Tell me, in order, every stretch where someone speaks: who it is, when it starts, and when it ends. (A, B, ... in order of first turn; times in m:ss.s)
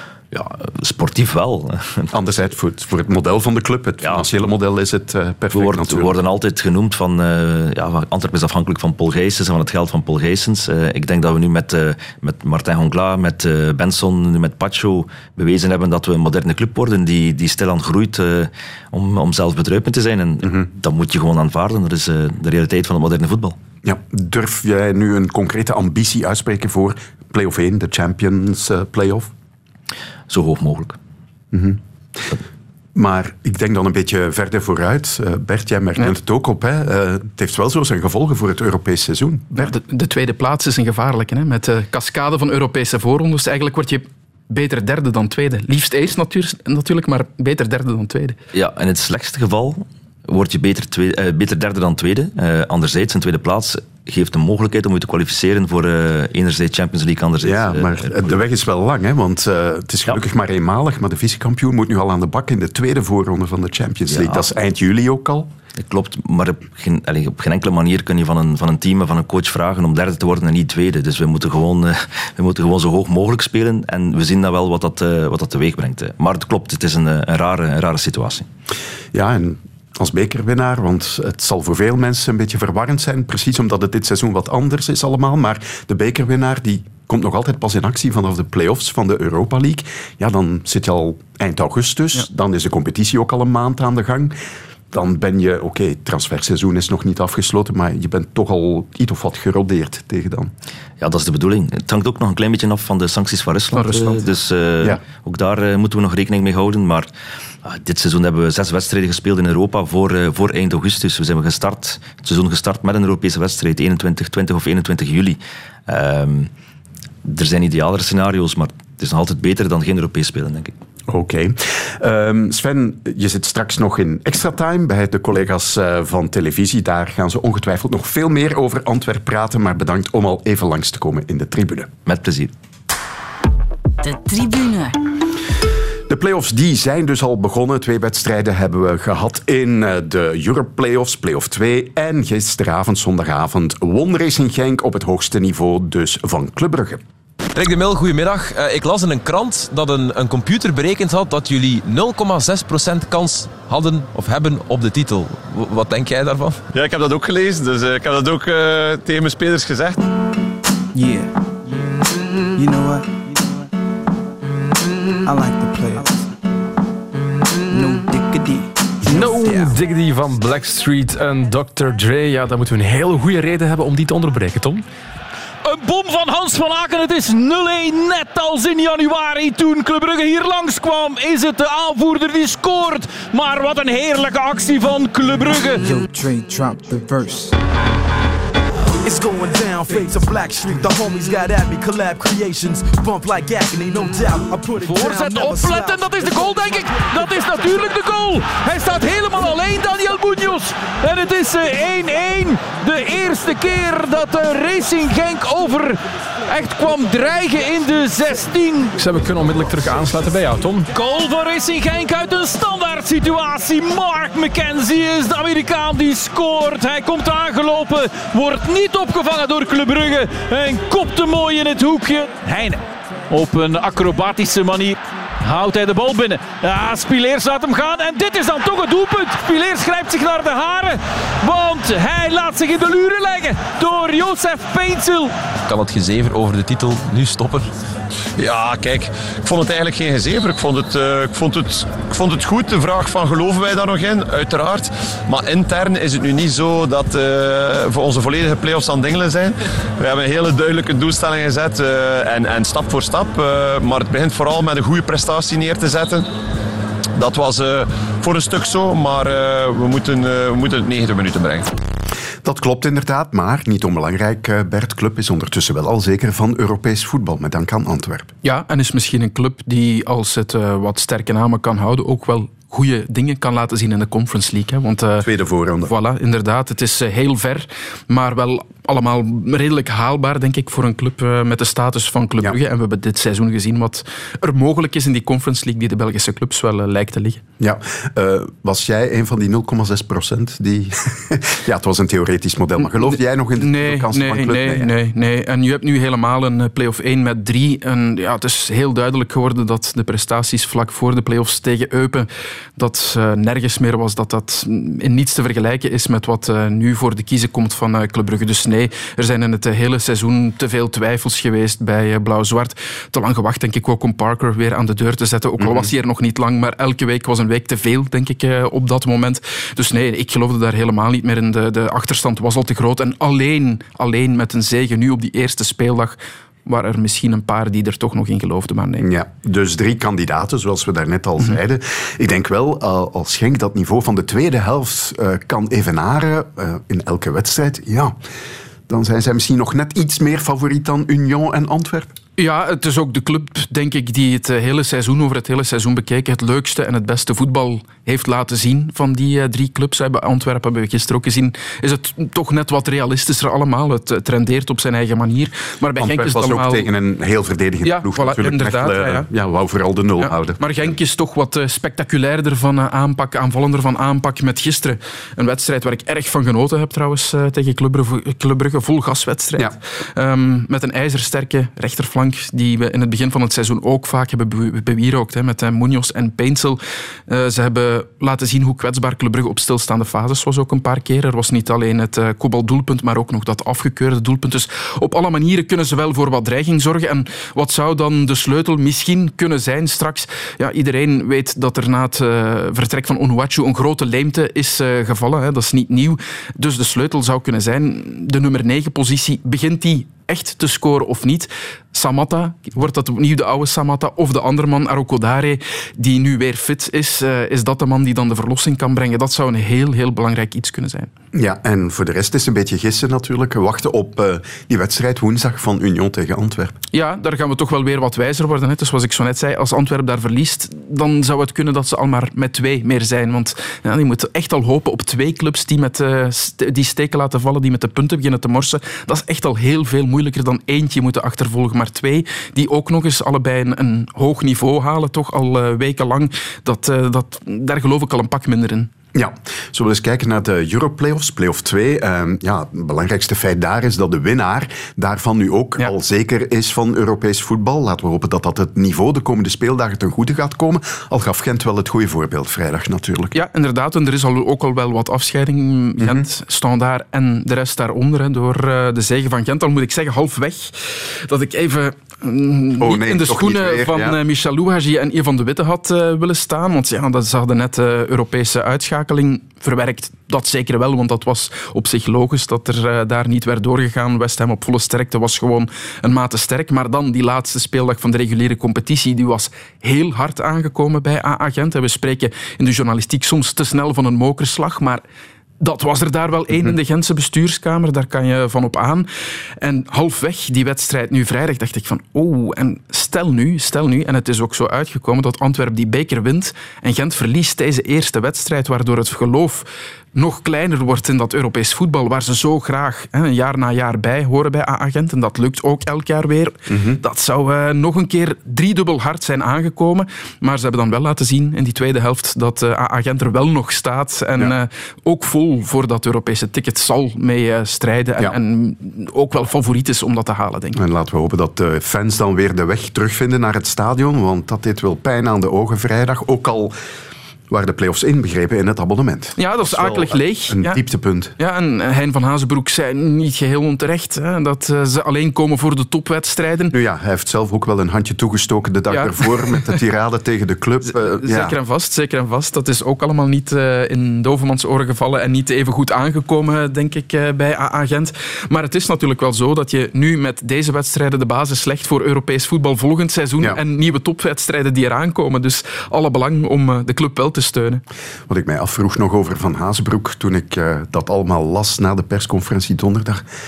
0:00.3-0:02.1 A
0:02.1-0:06.2 B
0:05.5-0:23.6 A
0:23.8-0:29.3 B
0:30.3-0:31.0 A
0:31.5-0:31.8 B
0:33.0-0:39.7 B
0:39.6-0:48.4 C
0:48.5-0:58.3 A
0:57.4-1:05.5 B
1:04.1-1:04.5 A
1:05.8-1:18.5 A
1:19.1-1:34.4 B
1:34.9-1:40.5 B
1:41.0-1:47.1 A
1:43.7-1:44.2 C
1:47.6-1:56.5 A
1:57.2-2:00.7 A
2:01.1-2:11.9 B
2:12.1-2:12.5 A
2:16.1-2:27.0 B
2:27.5-2:36.6 D
2:36.7-2:40.0 E
2:40.9-2:41.3 F
2:42.6-2:43.6 F
2:45.2-2:46.3 F
2:47.7-2:49.8 F
2:49.1-2:54.8 G
2:55.6-3:05.9 H
3:05.8-3:07.6 F
3:09.0-3:17.8 I
3:14.8-3:29.0 H
3:29.0-3:30.9 G
3:30.9-3:55.3 H
3:55.7-3:57.7 D
3:58.4-4:16.3 E
4:17.2-4:21.7 E
4:22.4-4:28.3 B
4:28.4-4:35.3 C
4:35.2-4:35.9 B
4:35.9-4:47.4 C
4:47.6-4:54.9 B
4:52.8-5:29.1 C
5:15.6-5:15.9 B
5:29.0-5:38.2 B
5:38.9-5:42.1 B
5:42.4-5:56.9 C
5:56.0-6:01.0 B
5:57.8-5:59.3 C
6:00.2-6:51.1 C
6:51.3-6:56.8 B
6:56.9-7:18.9 C
7:19.1-7:33.4 B
7:33.3-8:05.0 C
7:36.0-7:36.3 B
7:42.8-7:44.2 B
8:05.6-8:09.1 C
8:09.6-8:40.8 C
8:26.7-8:27.0 B
8:40.8-8:46.8 B
8:47.5-8:51.3 B
8:49.4-8:50.8 C
8:51.4-8:56.8 C
8:56.7-9:01.6 B
8:58.9-8:59.6 C
9:01.2-9:17.8 C
9:18.3-9:23.2 B